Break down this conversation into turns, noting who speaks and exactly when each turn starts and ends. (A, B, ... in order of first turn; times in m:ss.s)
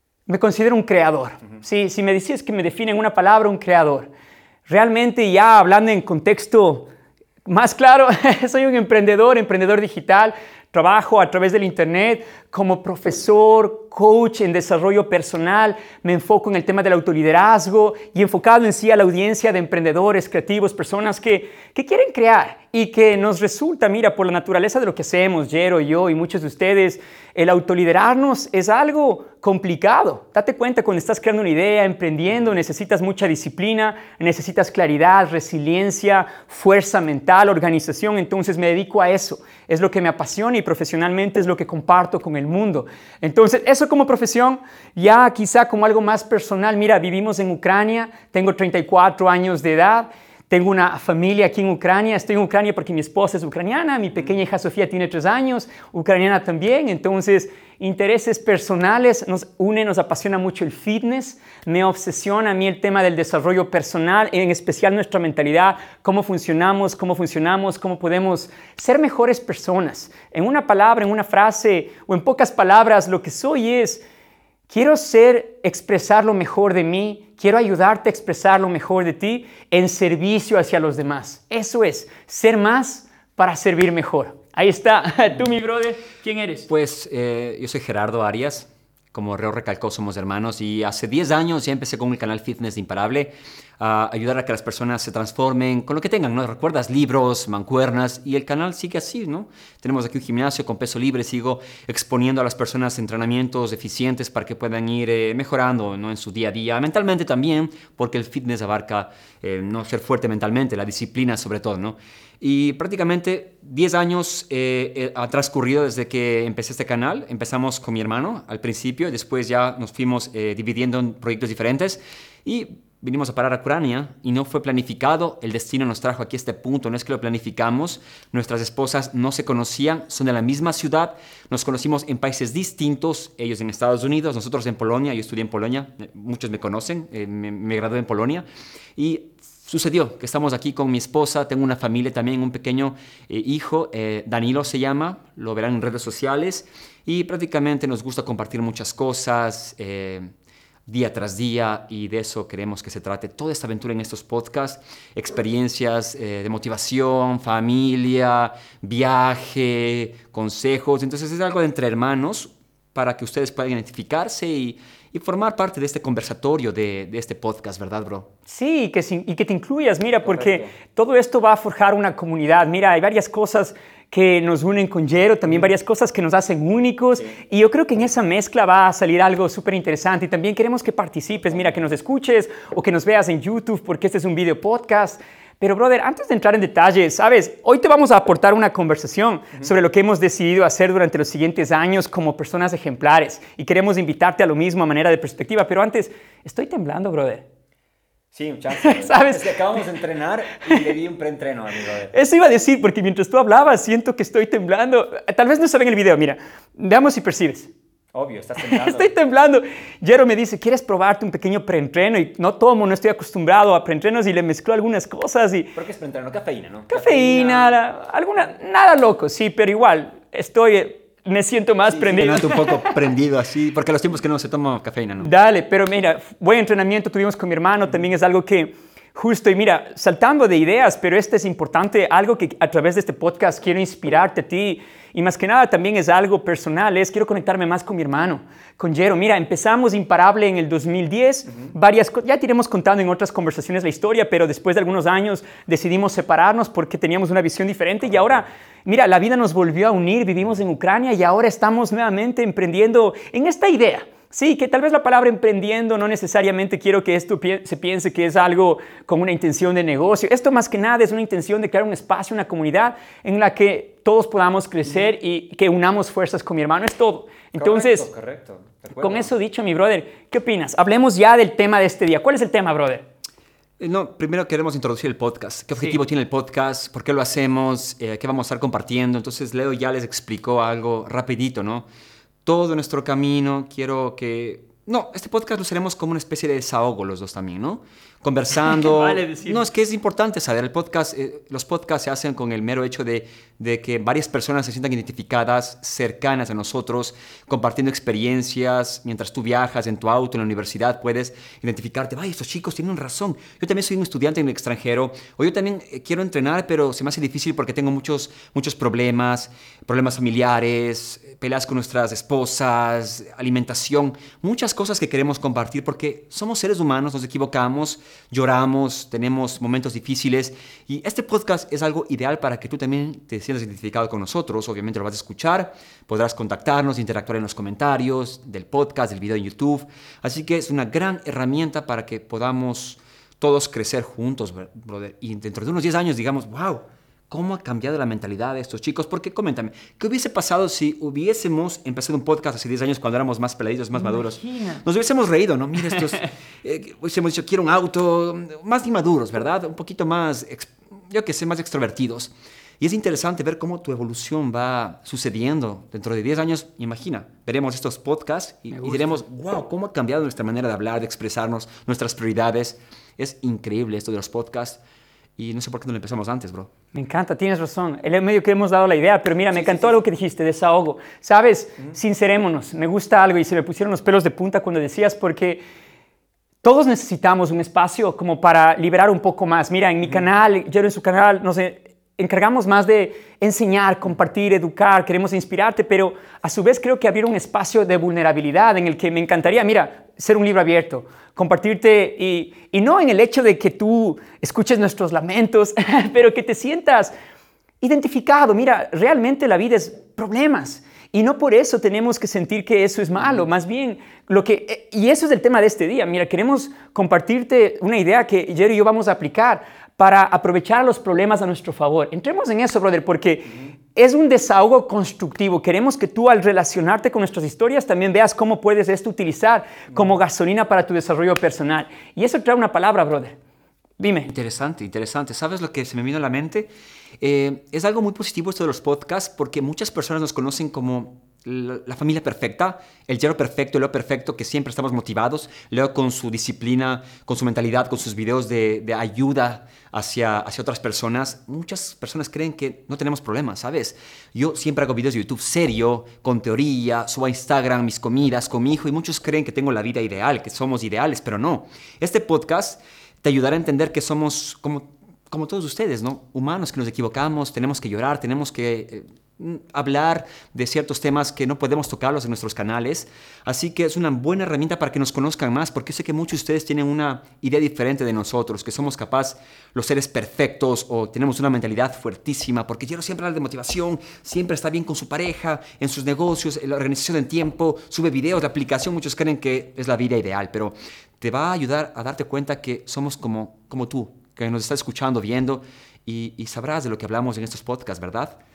0:00.3-0:04.1 A
0:04.7-0:06.9 A
0:07.5-1:14.0 A
1:14.7-1:26.7 A
1:26.7-2:18.4 B
2:19.0-2:30.3 B
2:30.9-2:48.3 B
2:48.5-3:17.4 A
2:50.2-2:50.7 B
3:18.3-3:22.1 B
3:18.8-3:19.5 A
3:22.1-3:27.7 A
3:28.1-3:29.1 B
3:28.6-3:35.7 A
3:35.8-3:37.8 B
3:36.9-3:43.0 A
3:41.9-3:45.3 B
3:45.2-4:28.1 A
4:27.6-4:29.3 B
4:29.0-4:33.1 A
4:33.8-4:41.9 B
4:42.4-6:04.8 B
4:48.6-4:49.6 A
5:44.0-5:44.8 A
6:05.4-6:06.7 B
6:06.9-6:15.6 A
6:16.6-6:37.1 A
6:37.8-7:03.4 A
7:04.0-7:04.3 A
7:04.3-8:08.4 B